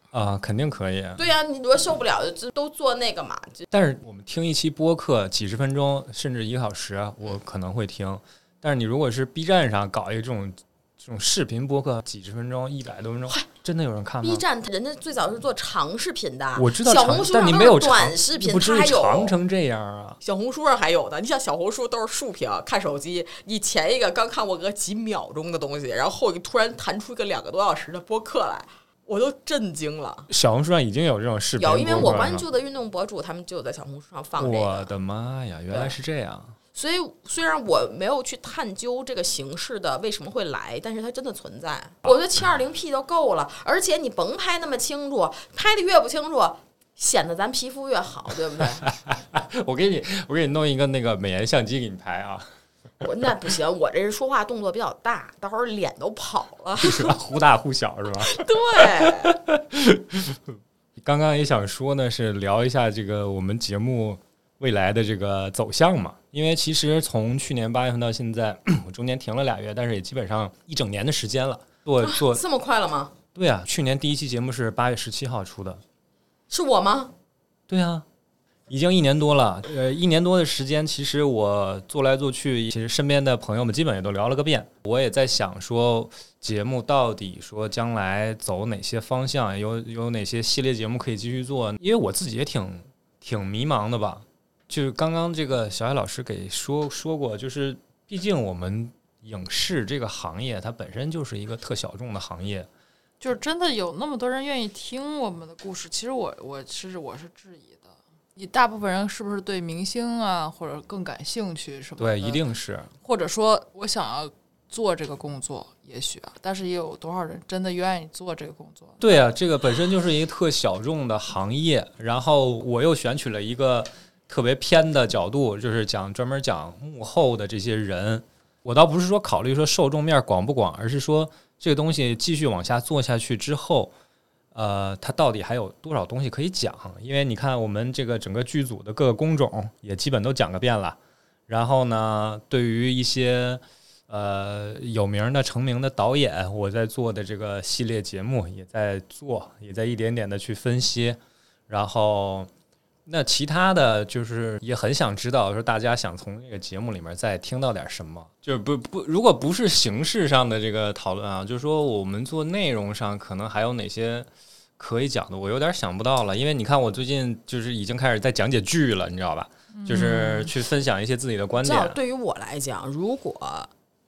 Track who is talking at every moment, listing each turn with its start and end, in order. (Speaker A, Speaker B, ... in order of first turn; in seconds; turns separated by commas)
Speaker A: 0.1-1.2, Speaker B: 1.2-3.6, Speaker A: 3.7-14.4, Speaker B: 14.2-19.4, Speaker A: 16.6-20.2, Speaker B: 20.2-30.3, Speaker A: 30.3-32.4, Speaker B: 31.6-34.9, Speaker A: 34.4-36.6, Speaker B: 36.7-48.9, Speaker A: 48.9-52.5, Speaker B: 53.0-57.1, Speaker A: 56.8-72.4, Speaker B: 58.2-59.4, Speaker B: 72.0-73.1, Speaker A: 73.3-75.8, Speaker B: 76.5-77.1, Speaker A: 77.7-78.0, Speaker A: 78.7-102.7, Speaker C: 103.2-112.4, Speaker A: 112.0-112.9, Speaker C: 113.0-119.0, Speaker A: 119.0-133.9, Speaker A: 134.5-152.5, Speaker A: 153.1-172.0, Speaker C: 169.8-170.5, Speaker B: 171.6-173.7